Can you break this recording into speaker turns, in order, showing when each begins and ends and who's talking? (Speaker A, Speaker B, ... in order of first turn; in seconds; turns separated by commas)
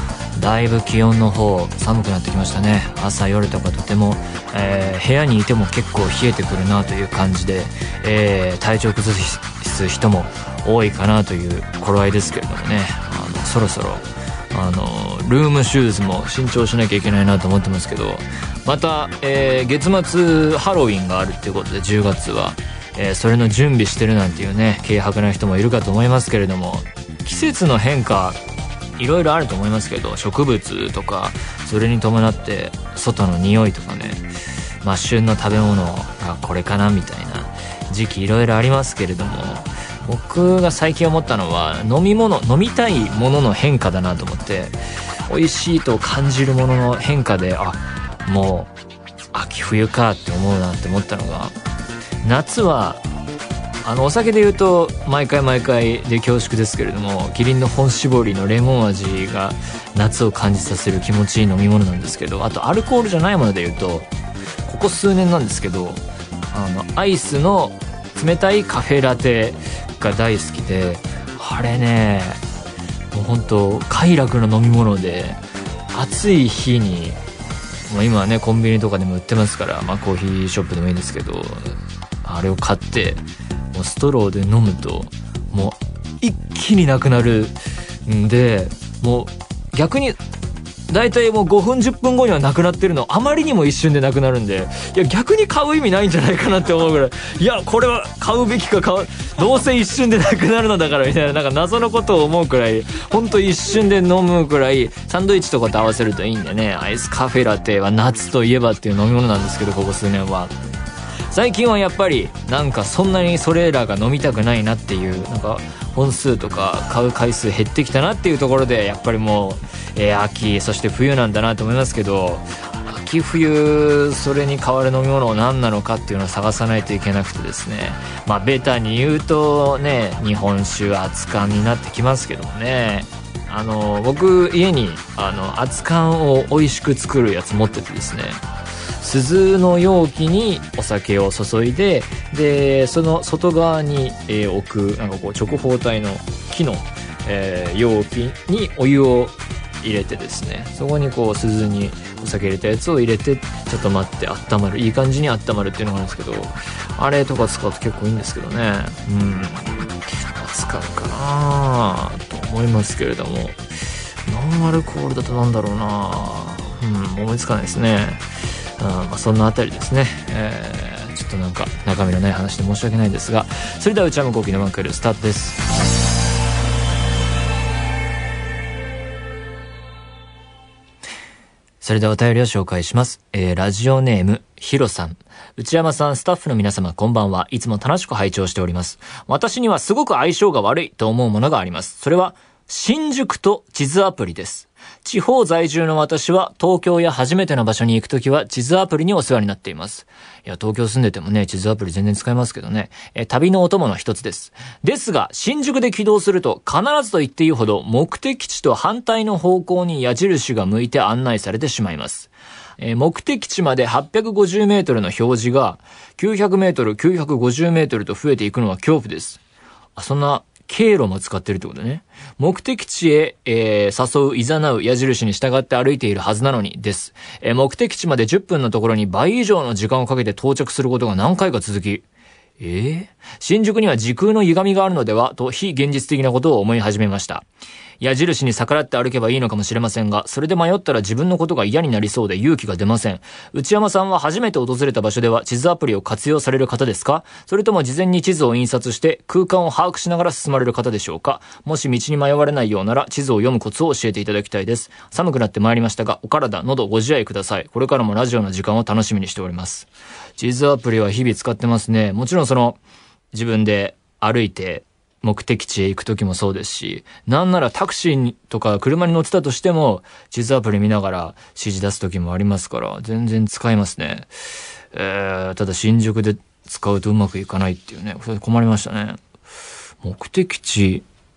Speaker A: 0.4-28.4, Speaker A: 29.0-34.3, Speaker A: 34.8-44.8, Speaker A: 45.3-48.7, Speaker A: 49.3-51.5, Speaker A: 52.2-53.0, Speaker A: 53.8-64.1, Speaker A: 64.7-72.4, Speaker A: 73.1-77.2, Speaker A: 77.9-87.6, Speaker A: 88.1-90.2, Speaker A: 90.9-110.5, Speaker A: 111.3-138.4, Speaker A: 139.0-163.6, Speaker A: 164.3-168.3, Speaker A: 168.8-175.7, Speaker A: 181.8-219.4, Speaker A: 220.0-232.1, Speaker A: 232.6-237.4, Speaker A: 238.0-262.8, Speaker A: 263.3-279.2, Speaker A: 280.0-281.1